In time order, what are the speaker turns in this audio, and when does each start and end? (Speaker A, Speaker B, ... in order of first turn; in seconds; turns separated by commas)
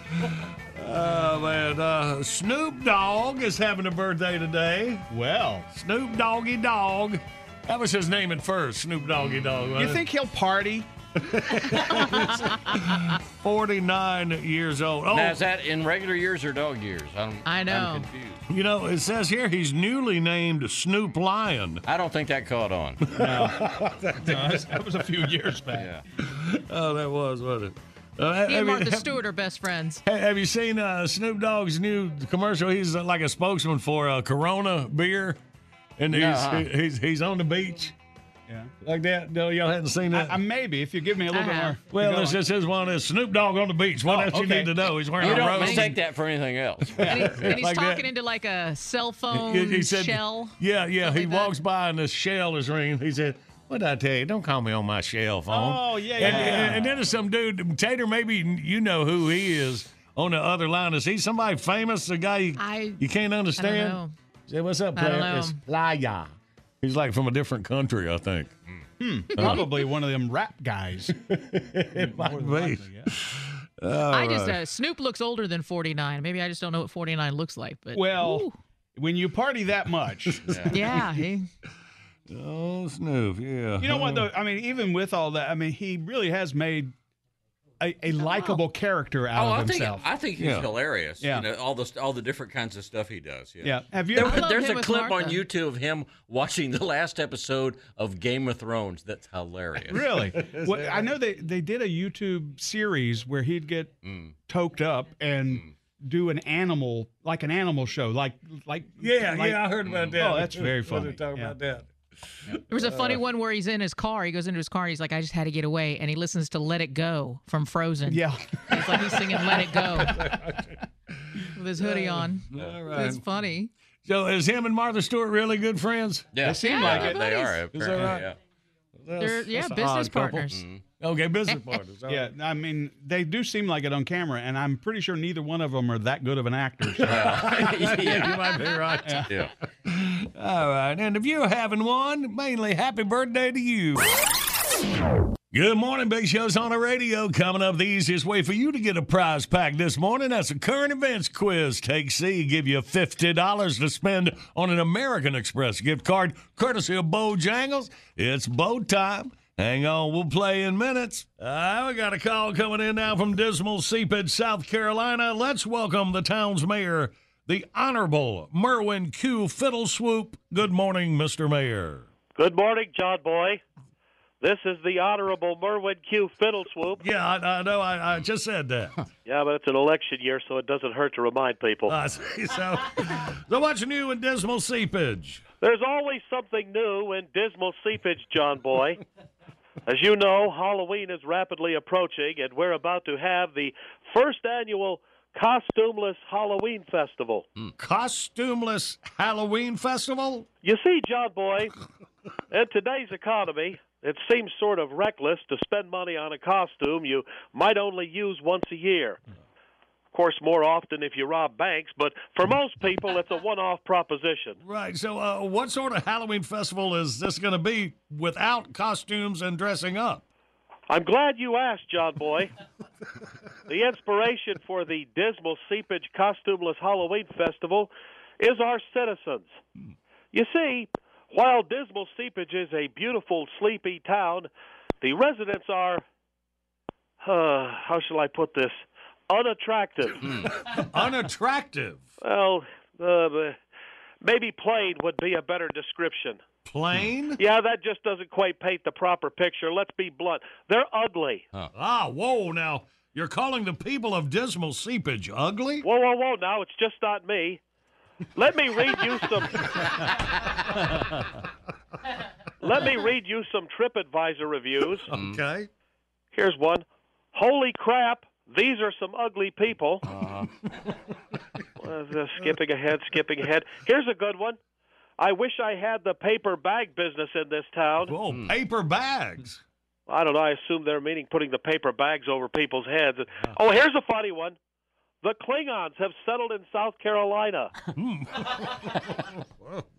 Speaker A: 0.8-5.0, Speaker B: 5.1-5.7, Speaker A: 5.7-10.0, Speaker C: 9.2-9.7, Speaker B: 9.8-10.9, Speaker A: 11.3-15.4, Speaker C: 15.1-18.4, Speaker D: 17.4-18.1, Speaker A: 18.5-21.8, Speaker C: 21.9-23.0, Speaker A: 23.1-24.7, Speaker B: 23.1-23.6, Speaker B: 24.2-25.9, Speaker C: 25.7-26.0, Speaker A: 26.2-29.2, Speaker D: 28.5-30.0, Speaker A: 30.1-35.4, Speaker A: 36.0-37.9, Speaker C: 36.1-36.7, Speaker A: 38.8-40.4, Speaker B: 40.1-42.4, Speaker D: 41.3-41.8, Speaker A: 41.9-46.0, Speaker B: 44.1-44.7, Speaker C: 45.1-47.0, Speaker D: 45.3-45.8, Speaker A: 46.8-48.1, Speaker D: 47.0-51.5, Speaker A: 49.3-66.3, Speaker B: 55.5-57.1, Speaker D: 62.6-63.0, Speaker D: 63.6-64.1, Speaker D: 65.0-65.6, Speaker A: 66.8-68.5, Speaker B: 69.0-71.1, Speaker A: 69.4-69.7, Speaker A: 71.3-74.6, Speaker B: 71.9-73.1, Speaker D: 74.1-78.5, Speaker B: 77.9-80.4, Speaker A: 80.3-81.1, Speaker C: 80.4-80.8, Speaker D: 80.7-81.5, Speaker A: 82.3-84.3, Speaker B: 83.8-86.9, Speaker B: 87.8-90.0, Speaker D: 88.2-88.6, Speaker C: 89.3-100.1, Speaker A: 90.4-90.7, Speaker B: 93.6-94.4, Speaker D: 94.1-95.4, Speaker B: 99.9-103.9, Speaker A: 100.3-101.0, Speaker C: 104.0-104.3, Speaker B: 104.5-109.6, Speaker A: 109.0-111.9, Speaker C: 109.8-110.2, Speaker B: 110.2-111.5, Speaker D: 112.7-120.2, Speaker A: 112.8-113.2, Speaker B: 118.1-118.8, Speaker A: 120.1-120.7, Speaker D: 121.5-123.7, Speaker A: 121.8-123.4, Speaker A: 124.0-127.1, Speaker C: 126.3-128.4, Speaker B: 126.4-127.2, Speaker D: 126.6-127.5, Speaker A: 127.7-128.3, Speaker B: 127.9-128.2, Speaker A: 129.0-132.3, Speaker D: 129.2-130.6, Speaker C: 130.5-130.8, Speaker B: 132.1-137.2, Speaker A: 137.0-139.3, Speaker C: 137.0-138.6, Speaker C: 139.2-139.5, Speaker A: 139.9-144.1, Speaker A: 145.5-172.1, Speaker E: 172.3-173.6, Speaker E: 174.4-177.0, Speaker A: 177.0-179.0, Speaker E: 179.2-181.9, Speaker A: 181.9-185.4, Speaker E: 185.6-189.0, Speaker E: 189.9-197.4, Speaker A: 197.8-200.4, Speaker E: 200.6-201.7, Speaker E: 202.5-209.2, Speaker E: 210.1-214.6, Speaker A: 214.6-220.2, Speaker E: 220.9-222.5, Speaker E: 223.7-229.6, Speaker E: 230.3-234.5, Speaker E: 235.0-236.0, Speaker E: 237.2-240.2, Speaker A: 240.7-242.0, Speaker E: 242.2-243.6, Speaker E: 244.2-246.4, Speaker A: 246.7-247.4, Speaker E: 247.4-251.4, Speaker A: 251.7-255.8, Speaker E: 255.8-257.6, Speaker E: 258.4-259.6, Speaker E: 262.6-265.1, Speaker A: 265.1-265.7, Speaker C: 265.1-265.4, Speaker E: 266.3-270.0, Speaker C: 270.1-270.5, Speaker E: 271.8-274.6, Speaker E: 275.2-278.1, Speaker A: 278.1-279.6, Speaker C: 278.2-278.6, Speaker E: 280.1-284.6, Speaker E: 285.2-287.7, Speaker A: 287.9-289.0